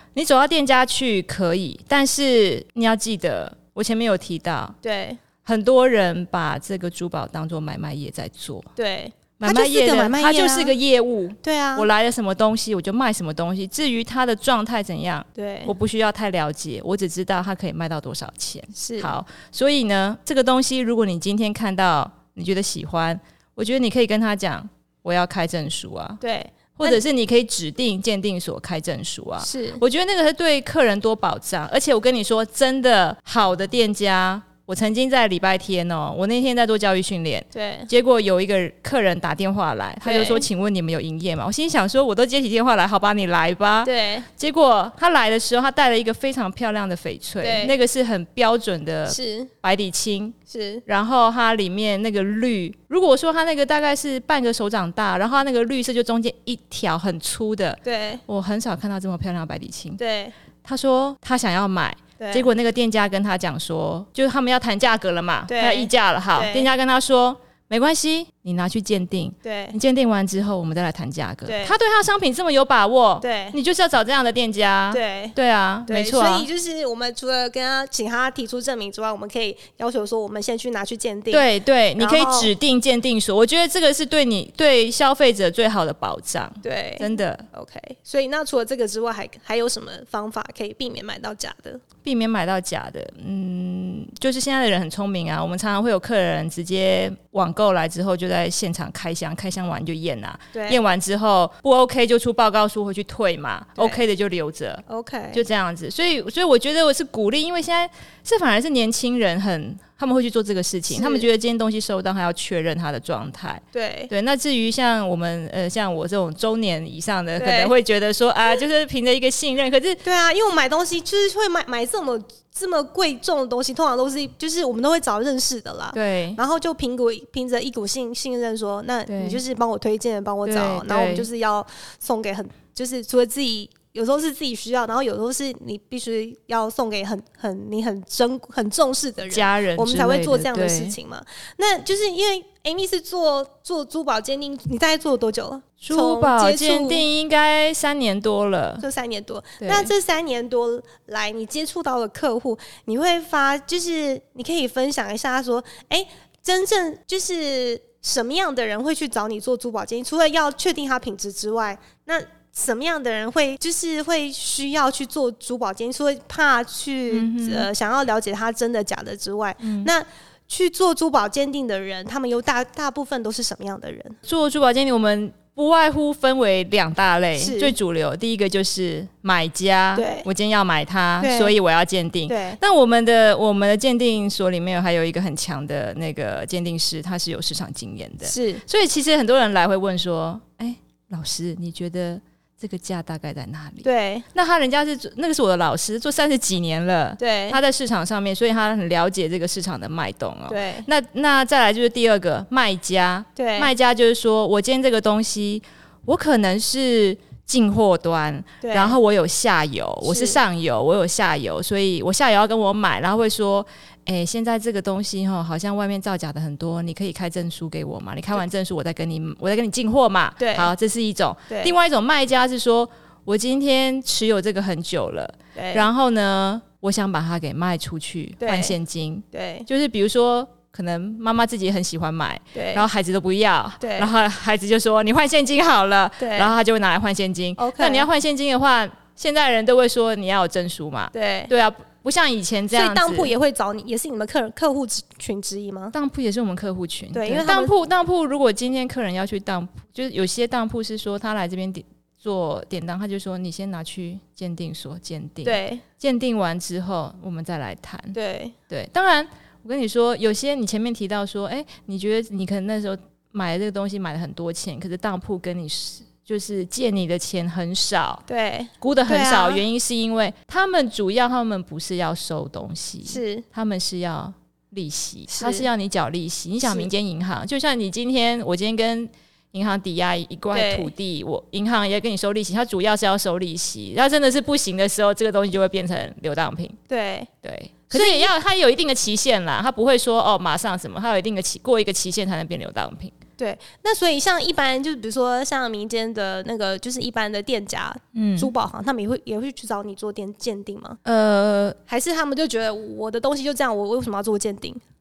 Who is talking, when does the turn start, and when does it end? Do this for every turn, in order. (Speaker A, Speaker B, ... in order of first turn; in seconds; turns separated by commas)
Speaker A: 0.1-4.8, Speaker B: 4.8-5.2, Speaker A: 5.5-8.7, Speaker B: 8.8-10.7, Speaker A: 9.4-26.2, Speaker B: 11.4-11.9, Speaker B: 15.4-15.7, Speaker B: 18.8-19.1, Speaker B: 26.2-27.0, Speaker A: 26.8-60.0, Speaker B: 29.4-29.8, Speaker B: 37.5-37.9, Speaker B: 40.0-40.5, Speaker B: 43.9-44.3, Speaker B: 47.4-47.7, Speaker B: 49.1-49.5, Speaker B: 50.5-50.8, Speaker B: 57.8-58.2, Speaker B: 60.0-60.3, Speaker A: 60.6-76.5, Speaker B: 62.2-62.5, Speaker B: 65.5-66.7, Speaker B: 69.4-69.8, Speaker B: 71.5-71.8, Speaker B: 73.2-73.6, Speaker B: 74.9-75.3, Speaker B: 75.9-81.5, Speaker A: 81.3-87.5, Speaker B: 82.0-82.5, Speaker B: 86.6-91.8, Speaker A: 92.0-120.0, Speaker B: 100.5-100.8, Speaker B: 104.9-105.4, Speaker B: 110.9-111.2, Speaker B: 113.7-114.1, Speaker B: 117.4-117.7, Speaker B: 120.0-147.1, Speaker A: 125.9-126.4, Speaker A: 129.1-129.4, Speaker A: 130.4-131.3, Speaker A: 139.3-141.0, Speaker A: 145.8-148.8, Speaker B: 148.8-174.2, Speaker A: 149.6-149.9, Speaker A: 167.1-167.7, Speaker A: 169.6-169.9, Speaker A: 174.2-243.3, Speaker B: 177.4-177.8, Speaker B: 180.0-180.3, Speaker B: 181.2-181.5, Speaker B: 182.3-182.6, Speaker B: 188.3-188.6, Speaker B: 193.8-194.3, Speaker B: 197.2-197.6, Speaker B: 200.5-200.9, Speaker B: 203.4-203.7, Speaker B: 208.6-209.0, Speaker B: 210.1-210.4, Speaker B: 220.4-220.7, Speaker B: 225.6-225.9, Speaker B: 228.4-228.8, Speaker B: 229.3-229.7, Speaker B: 232.6-232.8, Speaker B: 233.8-234.1, Speaker B: 236.2-236.5, Speaker B: 237.6-238.1, Speaker B: 241.1-241.5, Speaker B: 242.7-245.9, Speaker A: 245.9-258.1, Speaker B: 247.1-247.7, Speaker B: 255.4-255.8, Speaker B: 258.1-258.6, Speaker A: 258.7-268.2, Speaker B: 268.3-269.6, Speaker A: 268.8-286.8, Speaker B: 273.1-273.4, Speaker B: 275.3-275.7, Speaker B: 280.5-280.9, Speaker B: 286.9-287.3, Speaker A: 287.4-293.1, Speaker B: 287.9-288.3, Speaker B: 293.4-301.0, Speaker A: 298.1-298.5, Speaker A: 301.1-301.8, Speaker B: 301.9-304.8